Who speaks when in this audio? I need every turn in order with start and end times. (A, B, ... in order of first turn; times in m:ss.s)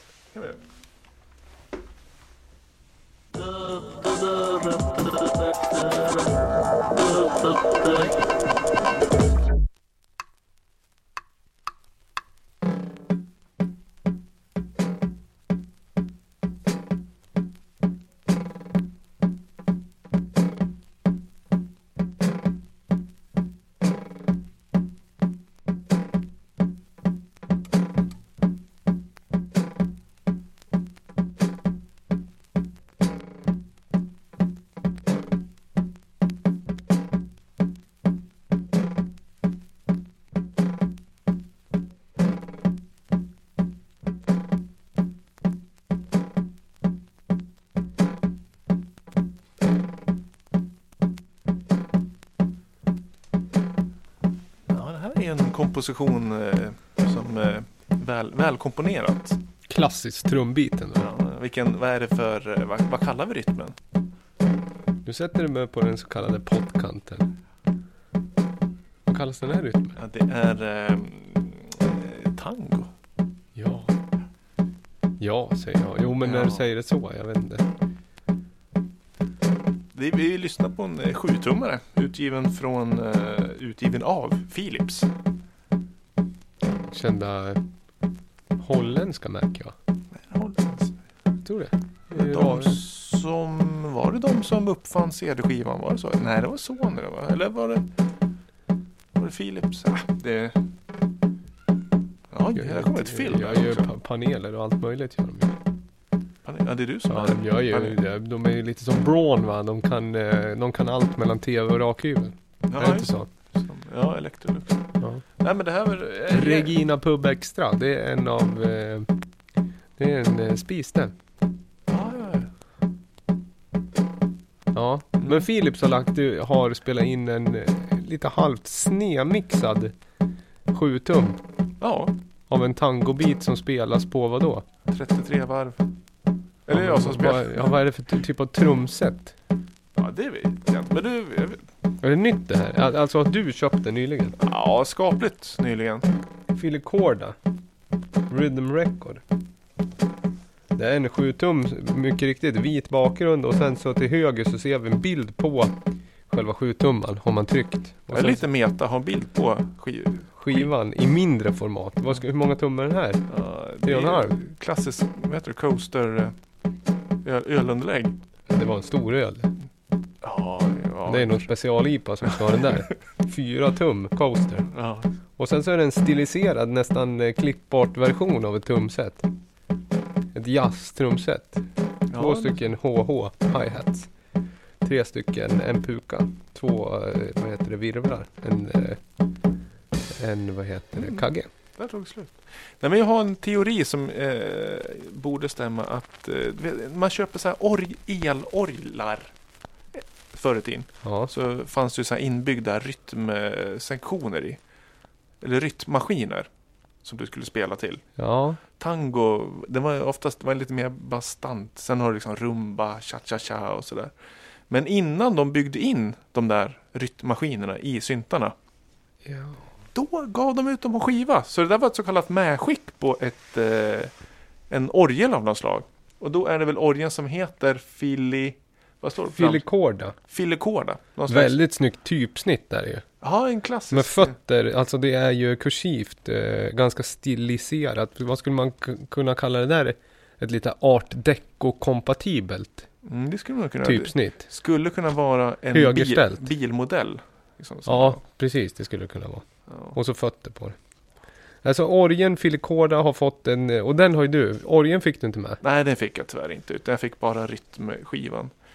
0:00.3-0:00.6 A
0:54.7-0:59.4 A
0:59.7-1:01.1 B
1:01.0-1:03.8 A
1:05.0-1:07.3 B
1:09.1-1:10.0 B
1:10.0-1:12.9 A
1:13.6-1:13.9 B
1:15.2-1:17.7 B
1:16.2-1:16.6 A
1:19.9-1:25.1 A
1:26.9-1:27.6 B
1:28.6-1:29.7 B
1:30.2-1:31.0 A
1:31.4-1:32.8 B
1:32.1-1:37.8 A
1:39.2-1:40.6 A
1:42.3-1:43.9 A
1:42.6-1:45.6 B
1:46.4-1:48.0 A
1:47.1-1:53.3 B
1:52.7-1:54.8 A
1:55.4-1:56.8 A
1:56.3-1:59.1 B
2:00.0-2:01.1 B
2:01.9-2:02.5 A
2:04.7-2:10.0 B
2:10.7-2:11.4 B
2:11.8-2:12.1 A
2:12.5-2:14.7 B
2:14.9-2:15.8 A
2:16.7-2:17.8 A
2:16.7-2:19.3 B
2:20.0-2:21.7 A
2:22.0-2:24.4 B
2:24.4-2:26.1 A
2:26.5-2:27.4 B
2:28.3-2:29.2 B
2:30.8-2:35.8 B
2:36.3-2:38.4 B
2:38.1-2:40.7 A
2:40.4-2:43.2 B
2:43.3-2:46.3 A
2:43.8-2:44.4 B
2:47.2-2:48.2 A
2:48.5-2:49.5 B
2:50.2-2:51.5 A
2:51.1-2:54.7 B
2:52.2-2:52.7 A
2:54.7-2:55.1 A
2:55.4-2:59.3 B
3:00.3-3:01.6 B
3:02.1-3:02.6 A
3:02.2-3:04.1 B
3:04.8-3:09.0 B
3:10.2-3:11.5 B
3:11.0-3:11.3 A
3:11.8-3:19.3 A
3:20.0-3:24.6 A
3:21.0-3:21.3 B
3:25.4-3:26.5 A
3:27.0-3:28.0 A
3:28.2-3:28.6 B
3:28.8-3:34.1 A
3:34.7-3:38.6 A
3:39.3-3:39.6 B
3:39.9-3:44.1 A
3:44.7-3:49.6 A
3:49.3-3:50.2 B
3:50.3-3:51.6 A
3:51.3-3:53.0 B
3:53.2-3:54.4 A
3:53.9-4:02.9 B
4:03.0-4:08.2 A
4:03.8-4:04.5 B
4:05.7-4:06.5 B
4:07.9-4:10.8 B
4:11.6-4:15.6 B
4:15.6-4:18.5 A